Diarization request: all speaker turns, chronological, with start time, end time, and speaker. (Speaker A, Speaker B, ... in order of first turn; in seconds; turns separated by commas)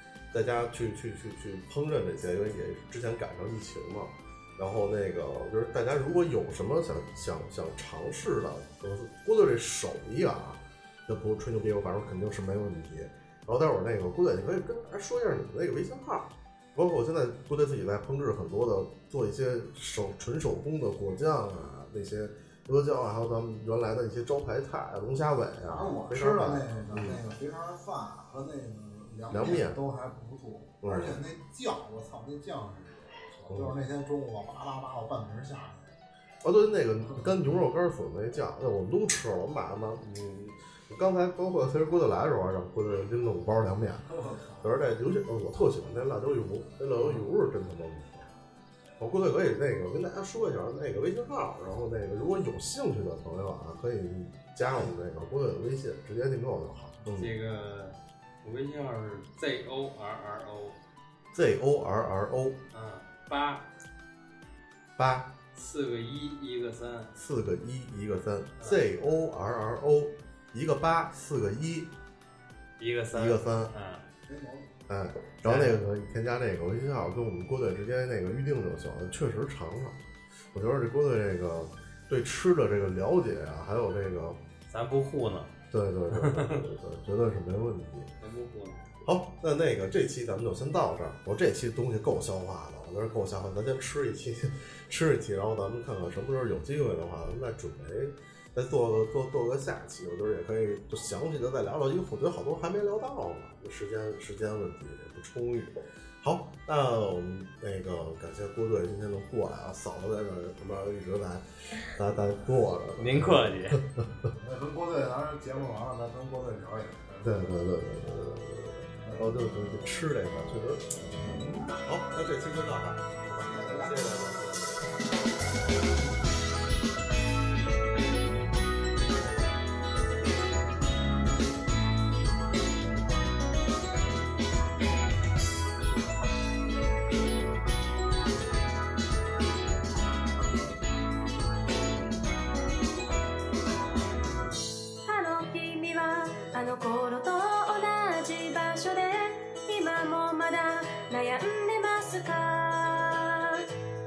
Speaker A: 0.3-27.2, Speaker B: 25.6-36.0, Speaker A: 29.3-29.8, Speaker A: 30.8-31.2, Speaker A: 36.4-44.1, Speaker B: 44.1-44.7, Speaker A: 44.6-48.3, Speaker A: 49.0-57.3, Speaker C: 57.1-60.8, Speaker A: 61.3-62.6, Speaker C: 62.7-63.7, Speaker A: 65.0-65.3, Speaker C: 65.5-67.1, Speaker A: 67.2-71.9, Speaker C: 72.8-74.0, Speaker A: 73.1-73.7, Speaker B: 74.3-74.7, Speaker A: 74.9-80.0, Speaker C: 75.4-75.8, Speaker A: 80.5-84.4, Speaker C: 84.7-85.5, Speaker A: 85.7-88.1, Speaker C: 86.1-86.6, Speaker C: 88.2-88.9, Speaker A: 89.0-114.3, Speaker C: 113.0-113.8, Speaker B: 114.4-117.5, Speaker A: 117.2-124.9, Speaker B: 119.0-119.3, Speaker B: 123.3-124.1, Speaker D: 145.0-153.7